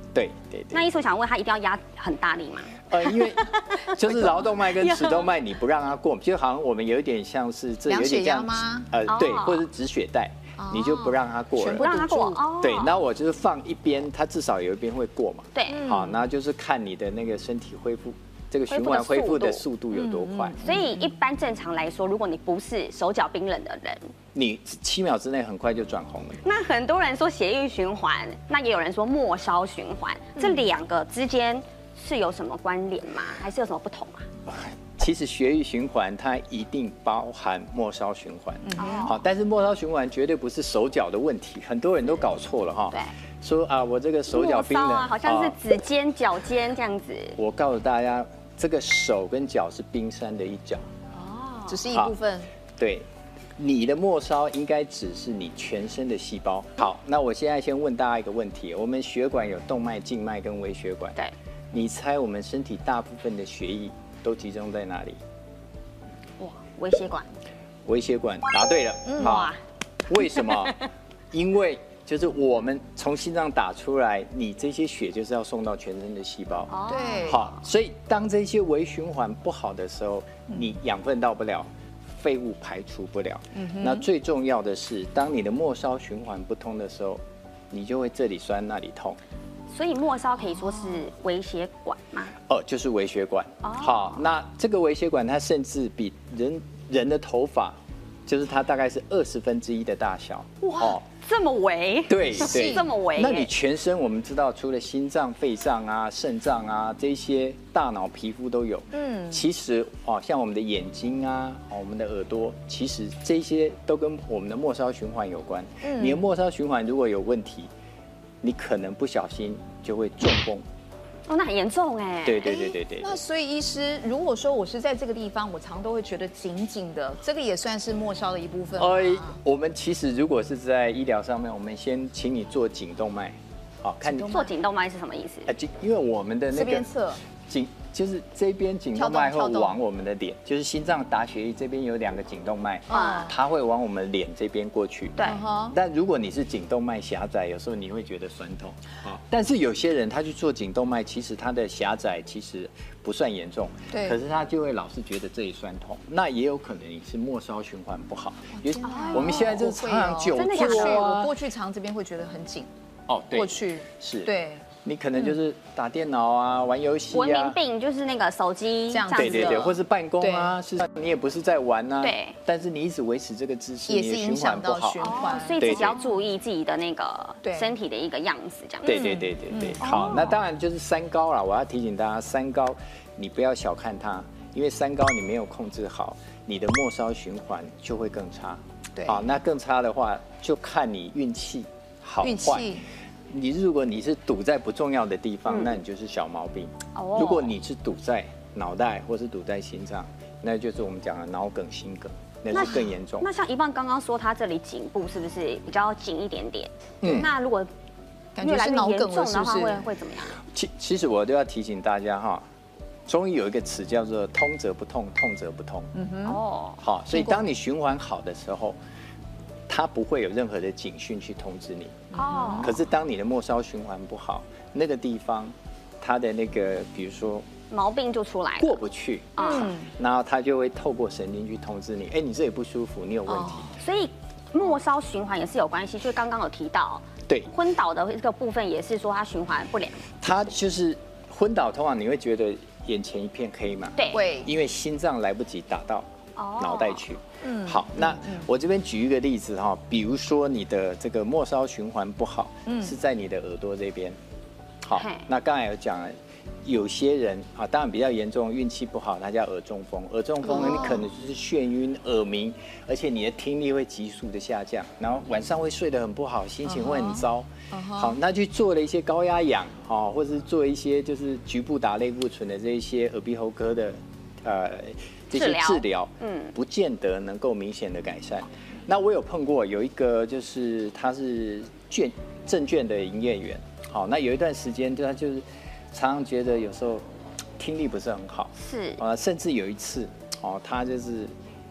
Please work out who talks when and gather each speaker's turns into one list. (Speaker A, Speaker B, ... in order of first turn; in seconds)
Speaker A: 0.1-0.9, 2.9-12.1, 12.6-20.6, 24.3-26.4, 34.5-45.6, 47.4-50.9, 52.8-53.1, 53.6-61.2, 61.7-65.2, 67.9-69.5, 70.1-70.8, 71.3-76.7, 77.2-89.2, 92.5-101.0, 102.1-117.7, 118.4-120.7, 122.2-123.2, 128.8-134.4, 135.5-136.9, 137.4-161.3, 163.1-164.3, 164.8-167.6, 169.1-176.0, 178.8-192.7, 193.3-203.3, 207.0-207.3, 210.5-212.4, 213.1-215.9, 216.8-218.8, 219.7-227.5, 228.6-233.7, 240.2-246.1, 246.6-254.2, 254.8-256.1, 256.6-287.0, 287.6-291.3
Speaker B: 0.7-5.3, 9.1-9.6, 11.8-13.0, 15.6-15.9, 18.7-19.6, 20.6-24.1, 26.4-34.3, 38.8-39.2, 44.3-47.4, 51.1-51.8, 66.4-67.3, 69.2-69.6, 70.4-70.8, 76.7-77.5, 89.7-92.3, 93.6-94.2, 100.6-103.5, 121.3-122.6, 134.2-135.5, 142.9-143.3, 158.8-159.7, 160.3-161.1, 167.1-169.8, 172.0-172.4, 175.0-179.1, 179.8-180.4, 196.9-197.5, 202.5-207.7, 208.4-210.4, 216.2-216.8, 222.2-222.8, 227.7-228.8, 229.4-229.7, 233.8-240.1, 244.0-244.2, 246.4-247.0, 255.0-255.2, 275.3-276.5, 288.6-289.0
Speaker C: 7.9-8.9, 10.6-12.4, 15.7-16.2, 19.9-21.0, 30.4-30.6, 38.6-39.1, 51.7-52.5, 69.1-69.3, 76.9-77.4, 83.5-84.0, 102.4-102.8, 108.9-109.4, 115.8-116.2, 122.4-129.4, 134.1-134.5, 136.5-137.2, 139.0-139.8, 142.9-143.3, 145.2-145.8, 153.9-154.2, 158.5-162.7, 163.3-164.7, 168.9-170.6, 173.9-176.1, 177.4-177.7, 178.9-180.0, 189.0-189.2, 192.2-192.8, 202.5-202.9, 208.4-209.9, 215.9-216.4, 217.1-217.4, 222.1-222.8, 229.4-229.9, 233.3-233.8, 244.1-244.5, 247.4-248.5, 252.7-252.9, 260.5-261.0, 266.7-268.2